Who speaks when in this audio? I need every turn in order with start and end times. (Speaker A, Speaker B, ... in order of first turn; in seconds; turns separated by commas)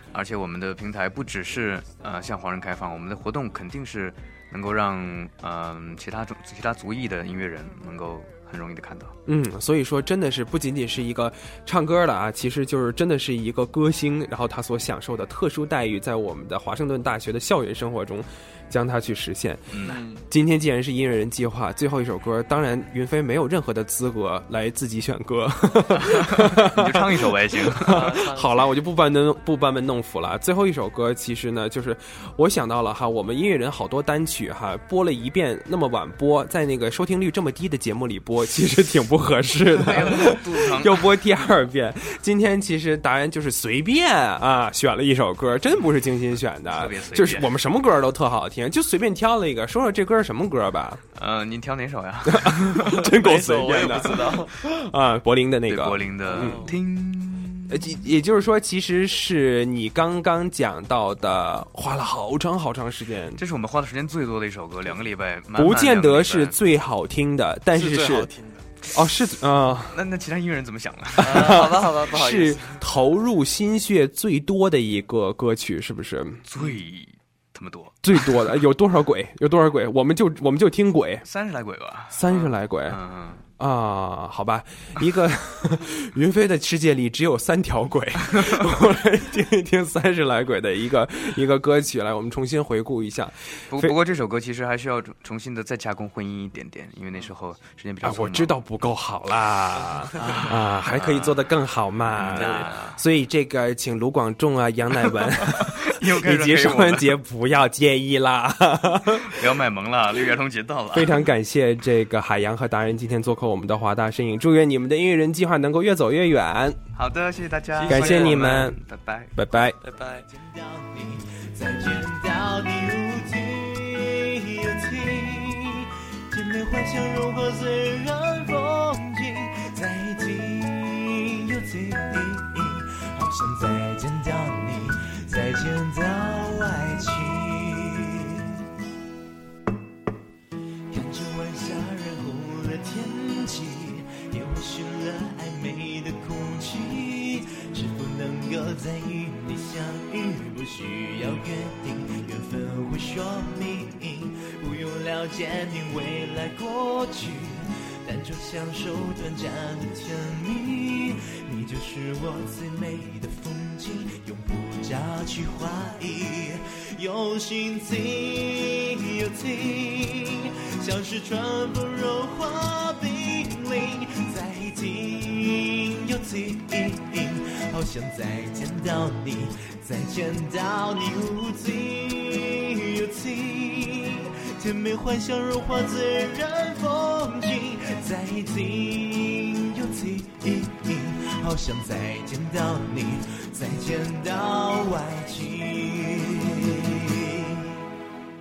Speaker A: 0.1-9.2, Speaker B: 9.3-51.0, Speaker A: 19.7-20.0, Speaker C: 19.9-20.2, Speaker A: 26.0-28.2, Speaker C: 27.9-28.7, Speaker A: 39.8-41.2, Speaker A: 46.7-47.6, Speaker A: 51.2-53.1, Speaker B: 52.3-56.7, Speaker C: 53.0-54.5, Speaker A: 55.7-58.0, Speaker C: 56.3-56.8, Speaker B: 57.7-63.4, Speaker A: 63.4-66.6, Speaker B: 65.5-68.3, Speaker C: 67.7-68.7, Speaker B: 68.9-70.0, Speaker A: 69.9-71.8, Speaker C: 71.2-72.8, Speaker B: 71.2-76.5, Speaker A: 76.5-78.0, Speaker B: 78.0-81.2, Speaker A: 81.2-83.4, Speaker B: 82.1-83.0, Speaker B: 83.6-94.0, Speaker A: 93.7-98.6, Speaker B: 98.0-109.5, Speaker A: 100.2-101.5, Speaker A: 102.1-103.0, Speaker C: 102.4-102.7, Speaker A: 105.4-107.2, Speaker A: 109.1-111.2, Speaker B: 110.9-116.8, Speaker A: 117.0-119.3, Speaker C: 117.8-118.7, Speaker B: 117.8-118.8, Speaker B: 119.3-119.8, Speaker C: 119.8-120.3, Speaker D: 120.3-138.6, Speaker D: 140.9-197.8